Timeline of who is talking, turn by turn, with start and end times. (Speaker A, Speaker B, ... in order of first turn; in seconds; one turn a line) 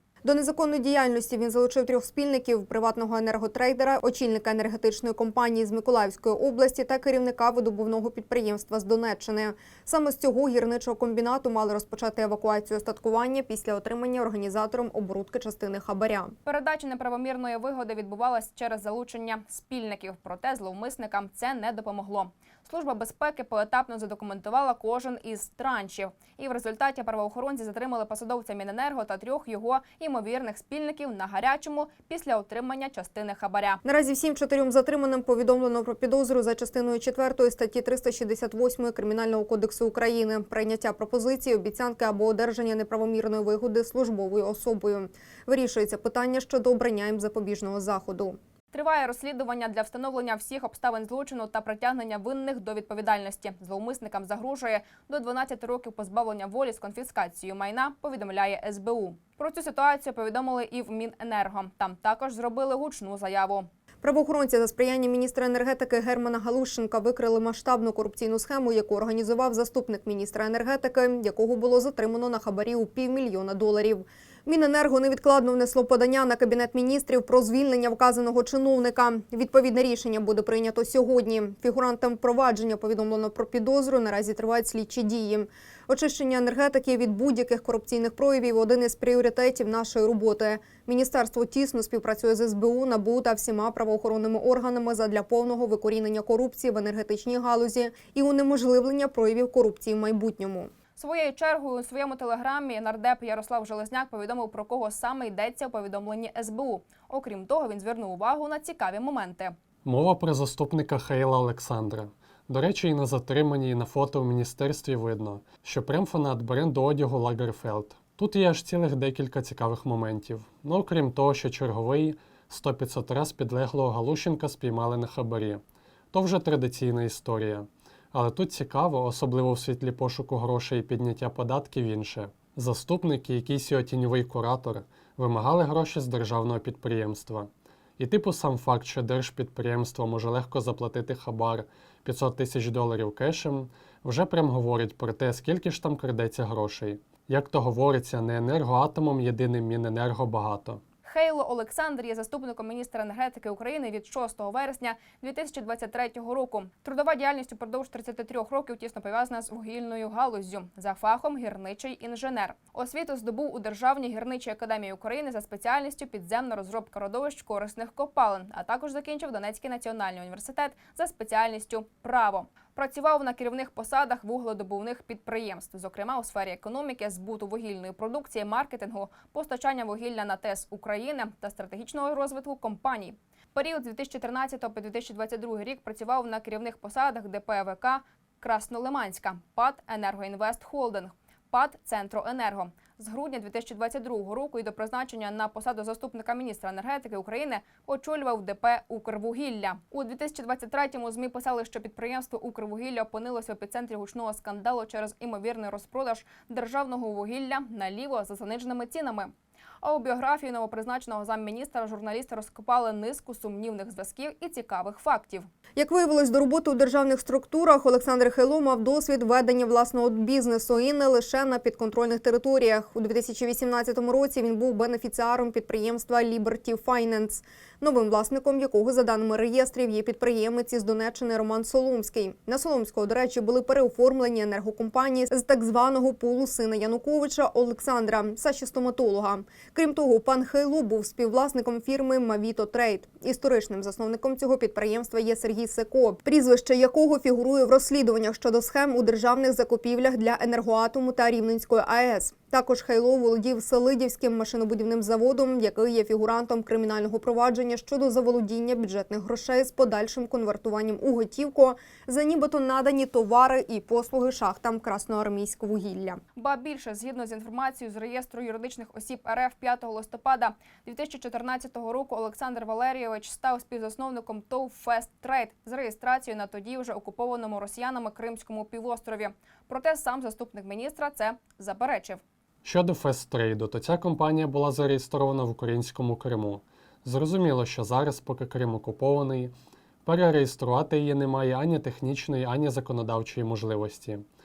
Speaker A: 0.2-16.3
Speaker B: 16.4-33.8
Speaker A: 33.8-48.4
Speaker B: 48.7-63.7
Speaker A: 64.0-100.7
Speaker B: 101.0-109.5
Speaker C: 109.8-150.8
Speaker B: 151.0-215.4
Speaker A: 215.8-266.2
Speaker B: 266.3-282.2
Speaker C: 282.6-289.5
Speaker C: 290.0-294.2